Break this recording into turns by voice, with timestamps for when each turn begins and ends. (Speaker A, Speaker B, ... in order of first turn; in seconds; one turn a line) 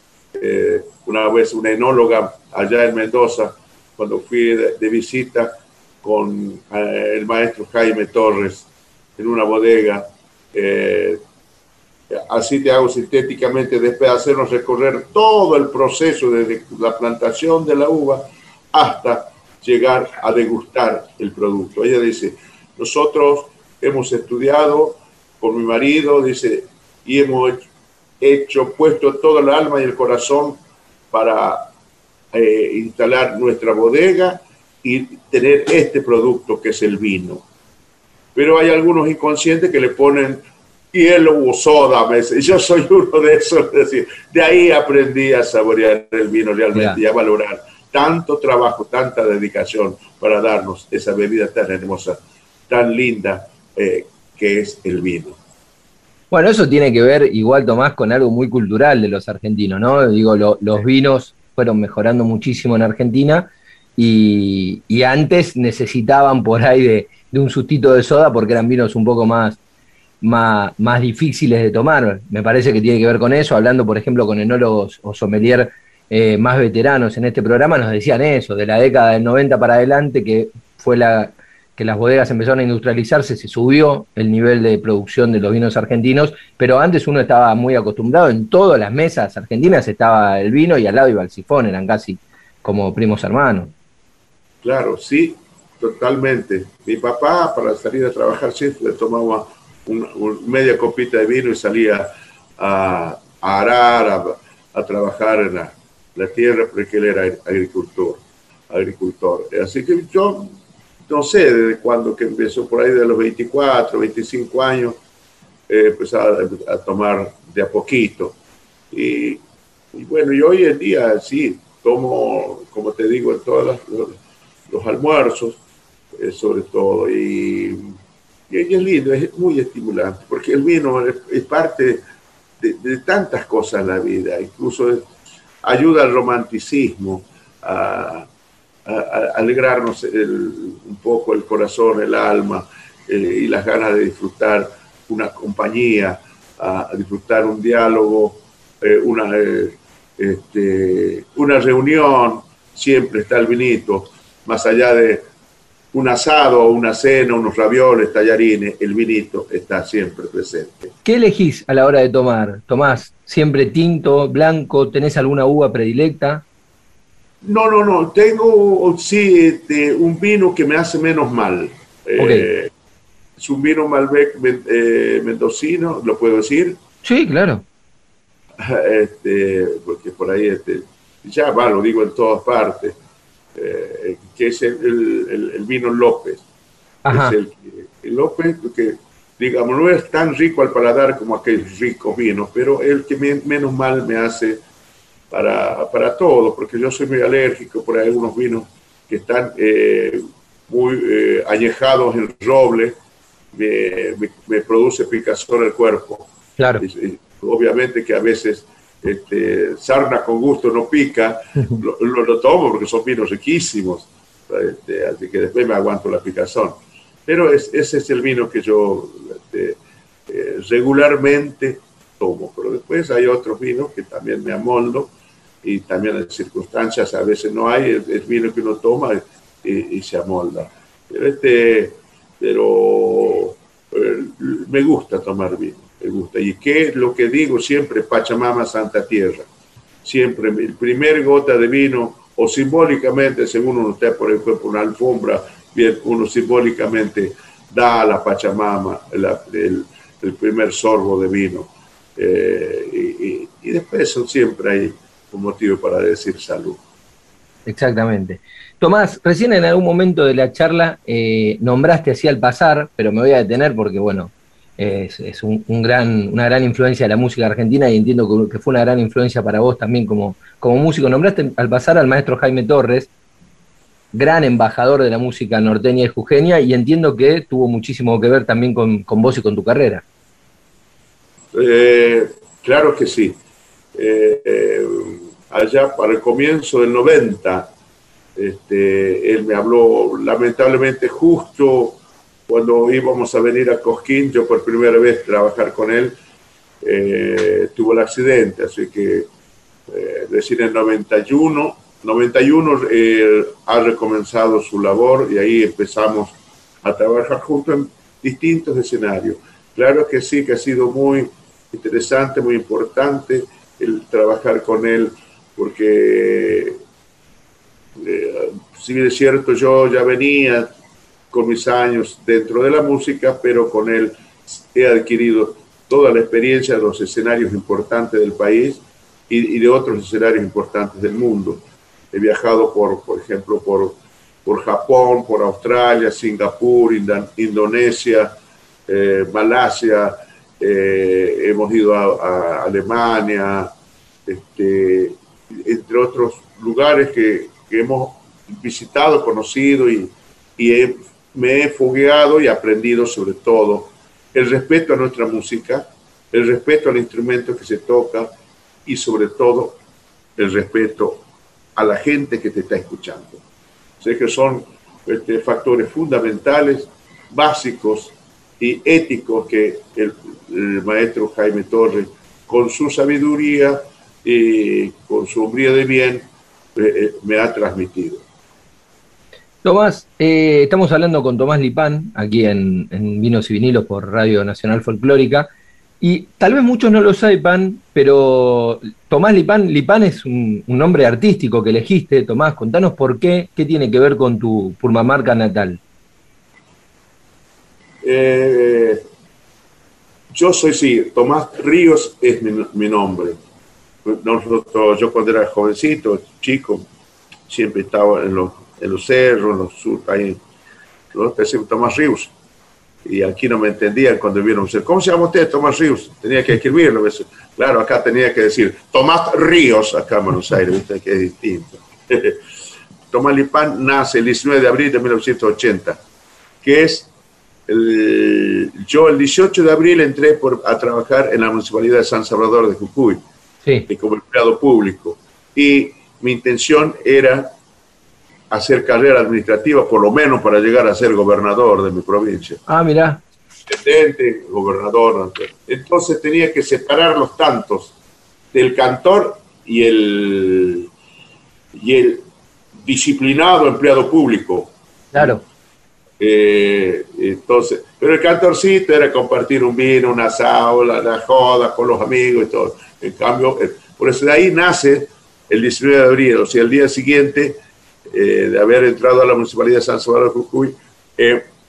Speaker A: 0.3-8.7
Speaker A: 9.2-11.2
Speaker A: 12.1-27.6
Speaker A: 28.2-30.6
Speaker A: 31.1-31.7
Speaker A: 32.3-37.4
Speaker A: 38.4-55.4
Speaker B: 56.3-69.6
Speaker B: 70.2-93.7
Speaker A: 94.6-110.5
Speaker A: 111.1-115.0
Speaker A: 115.7-118.3
Speaker A: 118.9-119.4
Speaker A: 119.9-124.2
Speaker A: 124.7-125.6
Speaker A: 126.2-127.9
Speaker A: 128.5-132.0
Speaker A: 132.6-135.1
Speaker A: 135.6-138.3
Speaker A: 138.9-155.2
Speaker A: 155.9-160.9
Speaker B: 161.1-166.4
Speaker A: 167.4-172.7
Speaker B: 172.2-172.5
Speaker A: 173.4-176.8
Speaker B: 177.0-177.7
Speaker A: 178.6-182.9
Speaker A: 183.6-186.4
Speaker B: 187.1-187.3
Speaker A: 187.1-194.6
Speaker A: 195.3-202.9
Speaker A: 203.5-206.3
Speaker B: 206.6-206.8
Speaker A: 206.8-225.1
Speaker A: 225.6-239.5
Speaker A: 240.1-256.8
Speaker B: 257.7-273.1
Speaker B: 274.1-280.0
Speaker A: 281.5-283.4
Speaker A: 284.0-287.7
Speaker A: 288.4-292.0
Speaker A: 292.5-296.2
Speaker A: 296.8-299.3
Speaker A: 299.9-316.8
Speaker A: 318.0-320.7
Speaker A: 321.3-338.3
Speaker A: 338.9-343.7
Speaker A: 344.3-358.3
Speaker A: 358.9-359.8
Speaker A: 360.4-361.2
Speaker A: 361.8-363.4
Speaker A: 364.0-378.2
Speaker B: 379.6-385.5
Speaker B: 386.0-395.8
Speaker A: 398.0-399.0
Speaker A: 400.3-403.4
Speaker A: 404.1-406.9
Speaker A: 407.5-410.4
Speaker A: 411.1-412.3
Speaker A: 413.1-422.4
Speaker A: 423.1-426.0
Speaker A: 426.6-427.1
Speaker A: 427.7-433.2
Speaker A: 433.9-437.5
Speaker A: 438.5-442.6
Speaker B: 442.7-443.2
Speaker A: 443.7-447.9
Speaker A: 448.5-450.9
Speaker A: 451.7-452.2
Speaker A: 452.8-455.4
Speaker B: 455.1-455.4
Speaker A: 456.2-467.6
Speaker A: 468.1-471.4